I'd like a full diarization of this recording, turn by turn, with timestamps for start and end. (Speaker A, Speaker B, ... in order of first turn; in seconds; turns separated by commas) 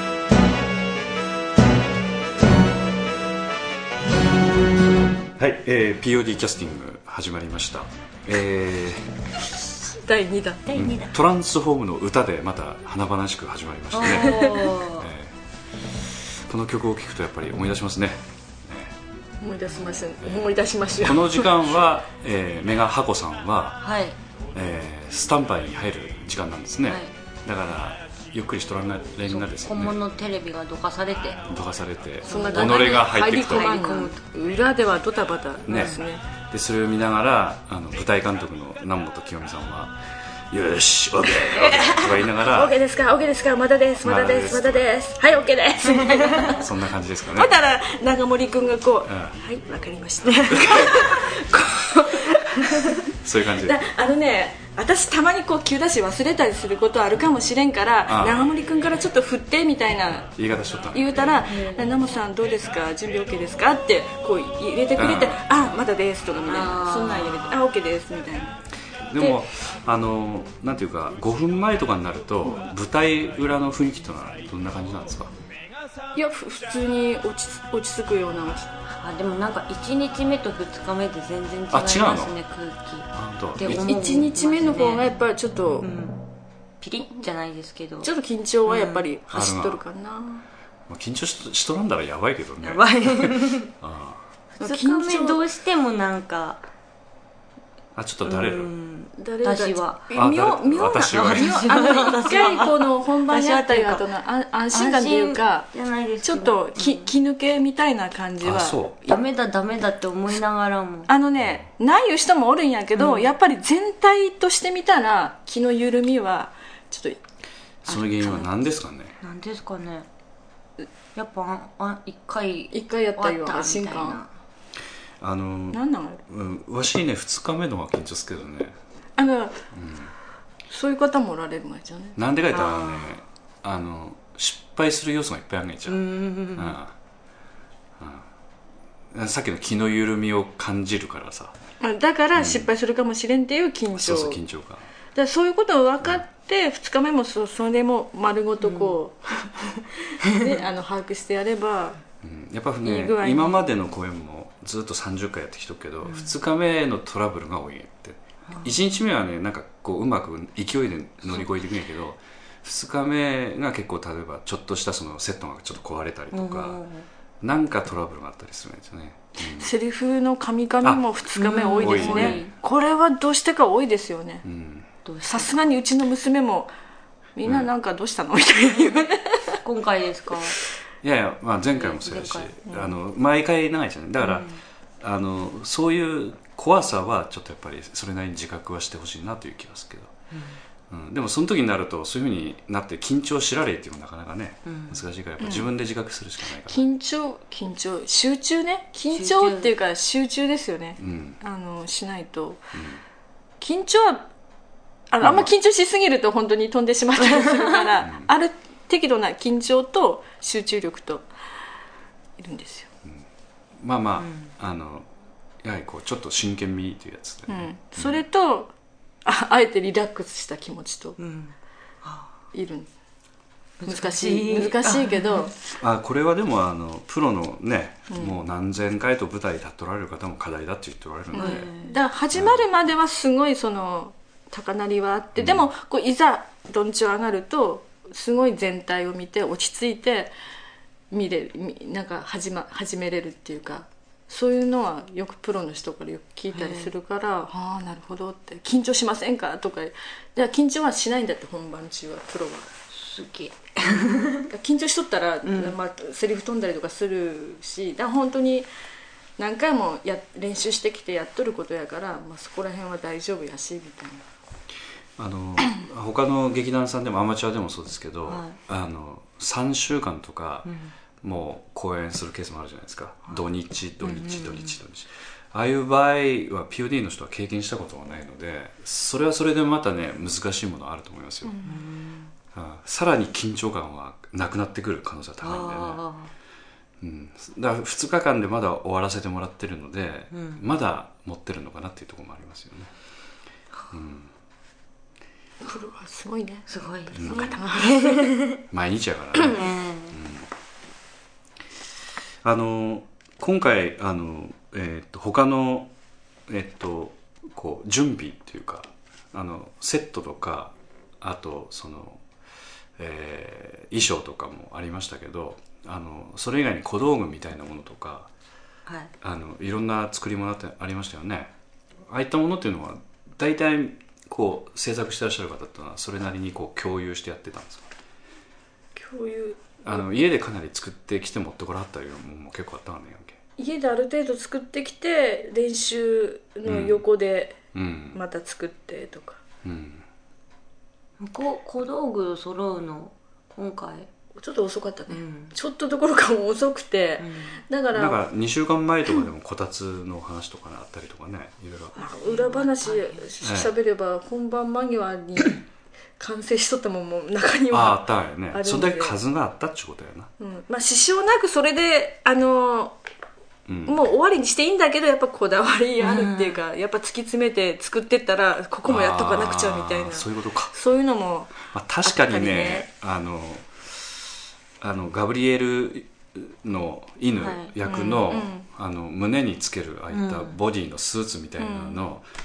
Speaker A: 5.4-9.1, Speaker B: 9.8-10.7, Speaker A: 10.7-15.3, Speaker C: 10.8-11.1, Speaker C: 13.9-15.1, Speaker B: 14.1-14.7, Speaker A: 16.5-18.9, Speaker B: 19.4-21.6, Speaker A: 20.2-23.8, Speaker C: 23.8-24.2, Speaker A: 24.5-30.0, Speaker C: 29.3-31.4, Speaker A: 31.5-33.8, Speaker C: 32.2-34.2, Speaker B: 32.2-36.2, Speaker A: 35.7-40.0, Speaker C: 35.7-36.0, Speaker A: 40.5-42.8, Speaker B: 41.3-46.6, Speaker A: 44.0-44.9, Speaker C: 46.1-46.5, Speaker A: 46.4-47.5, Speaker B: 47.3-53.0, Speaker A: 49.1-49.3, Speaker A: 50.5-51.0, Speaker A: 53.2-53.9, Speaker B: 53.6-60.3, Speaker A: 58.0-58.5, Speaker A: 60.3-61.5, Speaker B: 60.9-68.6, Speaker C: 61.5-61.9, Speaker A: 65.0-65.7, Speaker C: 66.5-67.6, Speaker A: 69.1-75.3, Speaker B: 76.2-78.7, Speaker C: 79.0-85.1, Speaker A: 81.7-82.3, Speaker A: 83.1-84.2, Speaker B: 83.7-85.9, Speaker C: 85.8-86.2, Speaker C: 86.8-88.1, Speaker B: 88.0-90.4, Speaker C: 88.7-89.0, Speaker A: 89.3-89.8, Speaker A: 90.9-94.2, Speaker C: 92.6-93.7, Speaker B: 94.6-95.4, Speaker C: 94.6-96.6, Speaker A: 98.0-98.7, Speaker C: 98.2-100.1, Speaker B: 99.2-105.7, Speaker A: 100.1-101.7, Speaker C: 101.0-104.0, Speaker C: 104.7-107.1, Speaker B: 106.2-108.8, Speaker A: 108.4-109.0, Speaker C: 109.0-111.1, Speaker B: 111.1-117.2, Speaker C: 113.0-113.3, Speaker C: 117.8-118.5, Speaker A: 117.8-119.2, Speaker C: 119.2-120.1, Speaker C: 121.2-124.3, Speaker B: 122.7-124.2, Speaker A: 125.2-128.8, Speaker B: 125.7-126.2, Speaker B: 129.2-129.6, Speaker A: 129.7-130.1, Speaker B: 130.7-132.2, Speaker A: 132.2-136.0, Speaker C: 132.5-133.1, Speaker C: 135.9-136.8, Speaker A: 136.6-136.9, Speaker A: 138.0-138.2, Speaker A: 139.1-141.6, Speaker B: 141.8-144.4, Speaker A: 142.4-142.7, Speaker A: 143.9-144.9, Speaker B: 145.2-152.0, Speaker C: 148.6-149.0, Speaker A: 152.2-166.8, Speaker B: 152.8-153.7, Speaker C: 156.1-156.3, Speaker C: 166.3-167.1, Speaker A: 167.4-169.7, Speaker B: 169.6-174.4, Speaker C: 171.4-172.5, Speaker A: 171.8-172.4, Speaker A: 174.4-174.9, Speaker C: 175.1-175.7, Speaker B: 175.2-176.7, Speaker B: 177.4-179.6, Speaker C: 179.6-180.6, Speaker A: 181.0-184.5, Speaker C: 181.7-182.5, Speaker B: 182.7-182.9, Speaker C: 184.3-184.6, Speaker A: 185.0-190.1, Speaker C: 190.3-190.6, Speaker A: 190.9-196.8, Speaker C: 194.7-195.0, Speaker B: 195.4-195.7, Speaker B: 196.7-202.7, Speaker C: 199.1-199.7, Speaker A: 201.0-201.4, Speaker A: 202.7-203.0, Speaker B: 203.6-204.2, Speaker B: 205.1-211.2, Speaker A: 205.2-205.5, Speaker C: 207.3-207.9, Speaker A: 208.0-208.3, Speaker B: 212.4-212.9, Speaker A: 213.8-215.1, Speaker C: 214.2-214.5, Speaker A: 215.6-218.2, Speaker B: 217.5-218.7, Speaker B: 219.2-221.2, Speaker C: 221.2-222.3, Speaker B: 222.5-222.9, Speaker C: 223.8-225.5, Speaker B: 223.9-225.5, Speaker A: 225.8-231.7, Speaker B: 228.1-228.4, Speaker B: 231.3-240.3, Speaker C: 231.3-231.9, Speaker A: 232.3-232.7, Speaker A: 235.4-235.7, Speaker B: 241.1-252.7, Speaker C: 246.5-246.9, Speaker C: 252.9-254.5, Speaker B: 253.9-258.7, Speaker C: 255.5-255.8, Speaker B: 259.4-264.2, Speaker A: 265.2-270.7, Speaker C: 268.3-268.6, Speaker C: 270.6-270.9, Speaker A: 271.2-281.5, Speaker C: 274.0-274.8, Speaker B: 281.4-281.9, Speaker C: 281.6-282.3, Speaker A: 282.5-286.0, Speaker C: 285.4-286.3, Speaker A: 287.0-292.9, Speaker C: 290.3-290.6, Speaker A: 293.9-294.3, Speaker B: 295.6-298.4, Speaker C: 296.7-298.6, Speaker A: 297.1-297.6, Speaker A: 298.7-300.5, Speaker C: 299.5-300.1, Speaker A: 302.4-305.9, Speaker A: 306.5-312.2, Speaker A: 313.0-318.3, Speaker C: 318.9-319.1, Speaker A: 319.2-321.5, Speaker A: 322.1-327.8, Speaker B: 328.9-329.7, Speaker A: 329.8-333.4, Speaker B: 333.6-337.6, Speaker A: 336.6-337.0, Speaker A: 337.7-338.2, Speaker B: 338.1-339.4, Speaker A: 339.6-340.0, Speaker C: 341.2-344.1, Speaker B: 344.4-348.2, Speaker C: 345.1-345.5, Speaker C: 347.2-347.6, Speaker A: 347.9-351.9, Speaker B: 351.9-355.6, Speaker C: 352.2-353.3, Speaker A: 353.4-353.7, Speaker B: 356.2-359.2, Speaker A: 357.7-360.3, Speaker B: 360.4-363.0, Speaker A: 363.7-363.9, Speaker B: 363.9-372.9, Speaker C: 366.0-366.6, Speaker A: 368.9-370.7, Speaker A: 371.7-373.7, Speaker A: 374.8-382.2, Speaker C: 377.4-377.7, Speaker B: 377.8-378.7, Speaker C: 380.1-380.5, Speaker B: 381.6-382.0